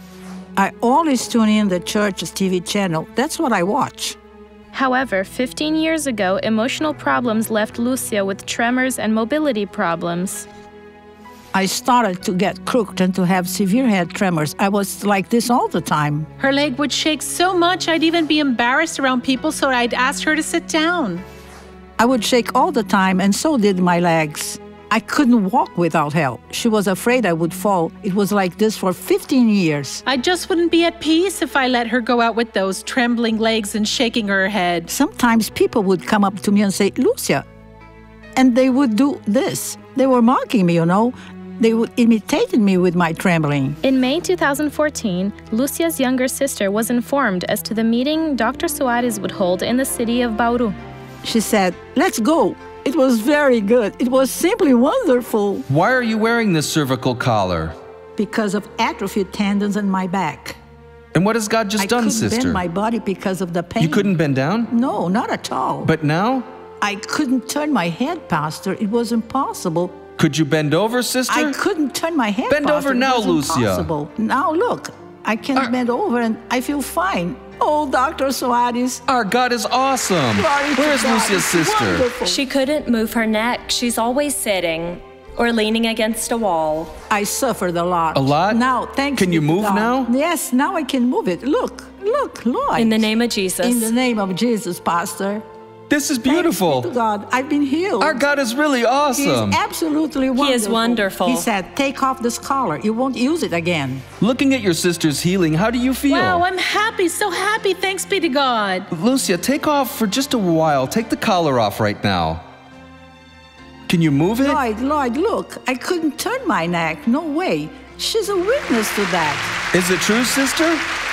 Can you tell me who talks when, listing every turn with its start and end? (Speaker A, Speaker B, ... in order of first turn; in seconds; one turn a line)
Speaker A: 0.6-4.2
Speaker B: 4.7-10.5
Speaker A: 11.5-16.3
Speaker C: 16.4-21.2
Speaker A: 22.0-30.0
Speaker C: 30.1-34.9
Speaker A: 34.9-37.4
Speaker A: 38.4-43.8
Speaker B: 43.8-50.8
Speaker A: 51.2-55.6
Speaker D: 55.7-57.7
Speaker A: 58.2-60.6
Speaker D: 61.1-62.6
Speaker A: 61.8-64.1
Speaker D: 63.8-64.7
Speaker A: 64.7-65.9
Speaker D: 65.8-66.5
Speaker A: 66.8-70.0
Speaker D: 70.2-71.6
Speaker A: 71.3-79.0
Speaker D: 72.5-73.9
Speaker D: 79.1-82.2
Speaker A: 80.3-82.4
Speaker E: 82.2-86.9
Speaker A: 87.1-93.1
Speaker D: 88.1-88.6
Speaker D: 89.1-90.1
Speaker E: 92.7-93.9
Speaker A: 93.6-95.4
Speaker D: 95.9-96.9
Speaker A: 96.2-98.2
Speaker D: 98.0-99.6
Speaker A: 99.1-104.0
Speaker E: 100.3-101.5
Speaker D: 104.2-106.4
Speaker C: 106.1-108.9
Speaker D: 108.9-112.4
Speaker D: 113.9-114.6
Speaker A: 114.4-119.5
Speaker D: 119.7-120.8